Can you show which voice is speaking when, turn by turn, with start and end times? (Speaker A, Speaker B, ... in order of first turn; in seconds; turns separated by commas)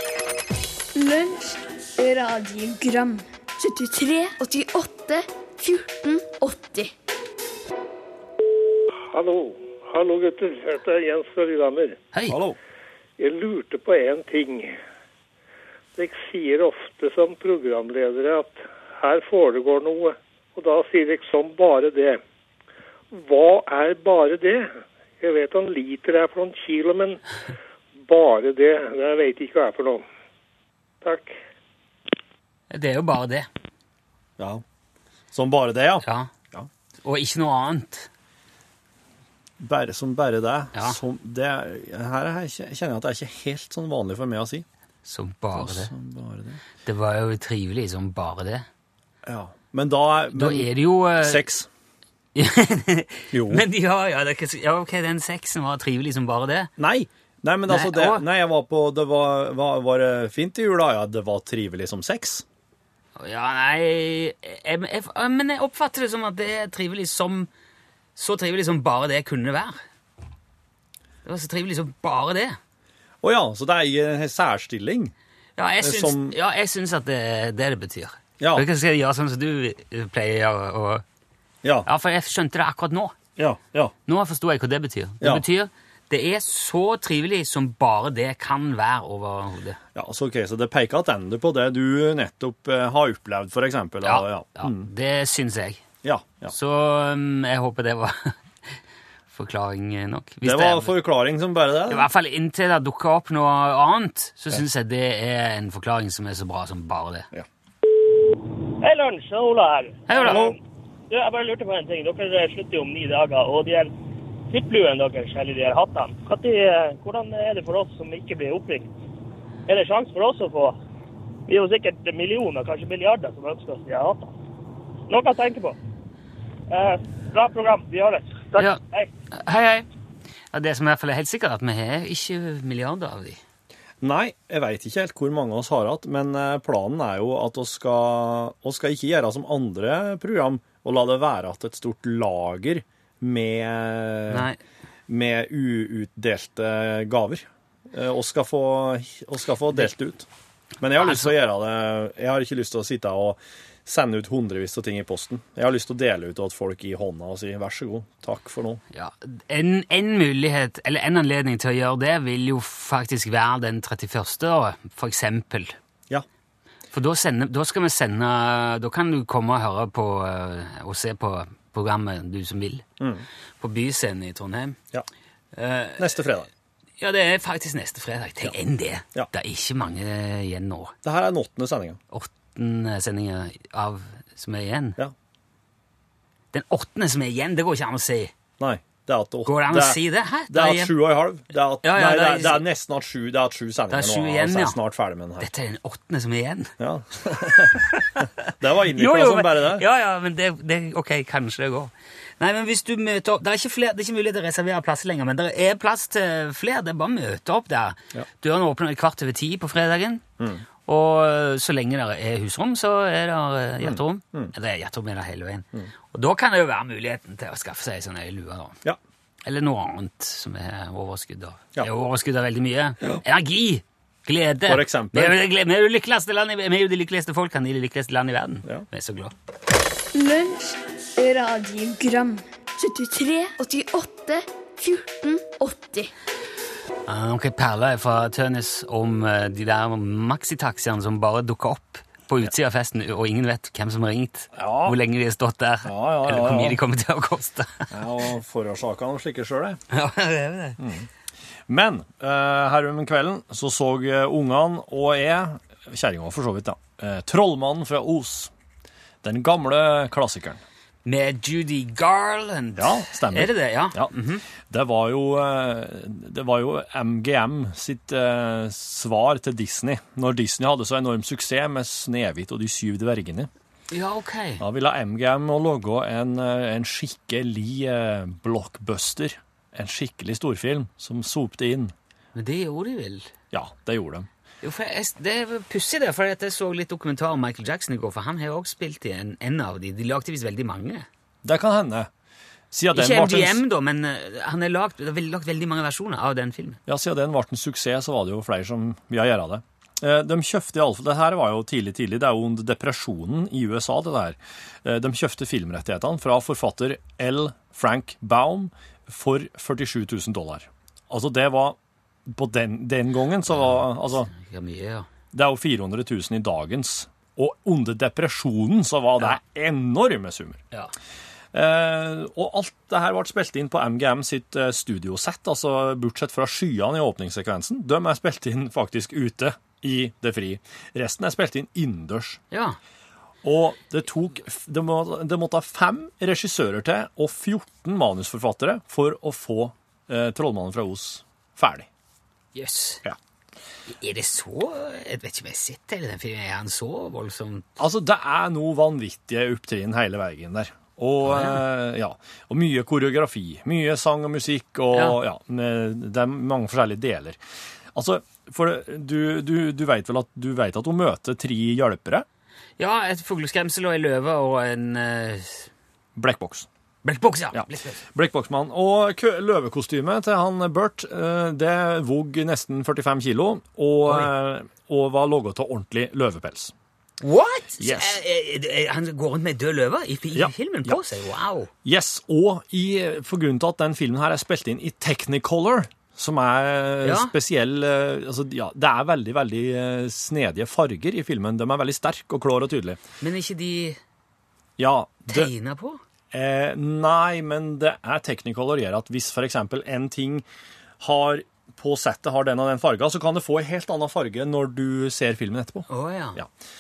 Speaker A: 0.9-6.9, Speaker B: 9.1-12.0, Speaker C: 12.1-12.4, Speaker D: 12.3-12.6, Speaker B: 13.2-14.7, Speaker B: 16.0-22.2, Speaker B: 23.1-27.2, Speaker B: 28.1-30.1, Speaker B: 31.0-31.4, Speaker C: 32.7-33.5, Speaker D: 34.4-34.6, Speaker D: 35.3-36.7, Speaker C: 36.0-36.3, Speaker C: 37.0-38.1, Speaker D: 39.6-44.7, Speaker C: 45.0-45.9, Speaker D: 45.5-46.6, Speaker C: 46.8-48.7, Speaker D: 49.2-50.7, Speaker C: 50.3-51.5, Speaker D: 51.2-51.7, Speaker C: 52.4-56.7, Speaker D: 53.3-53.6, Speaker D: 56.8-62.5, Speaker C: 57.7-58.2, Speaker C: 63.2-67.5, Speaker C: 68.2-69.8, Speaker C: 71.2-72.6, Speaker D: 73.2-75.1, Speaker C: 75.6-81.0, Speaker D: 75.8-76.4, Speaker D: 78.4-78.7, Speaker D: 81.6-81.9, Speaker C: 81.9-83.2, Speaker D: 83.4-83.9, Speaker C: 84.1-89.8, Speaker D: 90.0-94.9, Speaker C: 94.0-95.8, Speaker D: 96.0-96.5, Speaker C: 96.5-98.4, Speaker C: 99.3-101.0, Speaker D: 100.4-102.1, Speaker C: 101.9-107.3, Speaker E: 108.8-110.6, Speaker C: 110.1-110.5, Speaker D: 110.2-110.6, Speaker E: 111.1-113.9, Speaker E: 114.5-118.9, Speaker E: 119.7-120.8, Speaker E: 121.5-124.3, Speaker E: 125.1-125.8, Speaker E: 126.7-129.1, Speaker C: 128.6-129.9, Speaker C: 130.5-133.4, Speaker D: 134.0-144.5, Speaker C: 144.3-144.6, Speaker D: 145.1-150.3, Speaker D: 150.8-158.8, Speaker C: 151.0-151.3, Speaker C: 158.9-165.8, Speaker C: 166.9-172.8, Speaker D: 173.0-173.2, Speaker C: 173.6-174.8, Speaker C: 175.6-176.2, Speaker D: 176.0-176.5, Speaker C: 177.0-181.0, Speaker D: 181.0-182.0, Speaker C: 182.1-185.0, Speaker C: 186.5-188.3, Speaker D: 188.6-195.5, Speaker C: 189.4-190.9, Speaker C: 191.8-192.7, Speaker C: 193.9-194.8, Speaker C: 195.4-196.7, Speaker D: 196.8-199.8, Speaker C: 197.5-210.3, Speaker D: 210.4-210.6, Speaker C: 210.9-218.8, Speaker D: 213.8-214.5, Speaker C: 219.4-229.3, Speaker D: 224.7-225.4, Speaker A: 230.1-236.1, Speaker C: 237.1-247.9, Speaker D: 244.6-245.0, Speaker D: 245.8-246.8, Speaker D: 247.9-249.8, Speaker C: 249.9-250.8, Speaker D: 250.8-251.1, Speaker D: 251.7-258.5, Speaker D: 259.2-260.6, Speaker C: 261.1-264.4, Speaker D: 262.8-273.5, Speaker C: 273.9-274.6, Speaker D: 274.6-281.9, Speaker C: 282.4-283.3, Speaker D: 283.5-284.3, Speaker C: 284.6-291.1, Speaker D: 291.4-292.1, Speaker D: 292.7-293.6, Speaker C: 292.9-296.8, Speaker D: 296.9-314.3, Speaker C: 313.6-315.1, Speaker D: 315.3-320.6, Speaker D: 321.5-332.4, Speaker C: 332.5-332.8, Speaker D: 333.4-341.9, Speaker C: 342.6-343.0, Speaker C: 343.9-347.8, Speaker D: 347.8-357.4, Speaker C: 351.3-351.6, Speaker D: 357.9-362.3, Speaker C: 362.8-365.7, Speaker D: 366.1-366.7, Speaker C: 367.0-368.0, Speaker D: 367.5-376.7, Speaker C: 377.2-381.7, Speaker D: 377.8-378.2, Speaker D: 380.4-381.0, Speaker D: 381.9-393.0, Speaker C: 387.0-387.3, Speaker C: 393.2-394.0, Speaker D: 394.8-395.5, Speaker C: 395.3-396.0, Speaker D: 396.3-400.4, Speaker D: 401.0-406.5, Speaker C: 405.9-406.4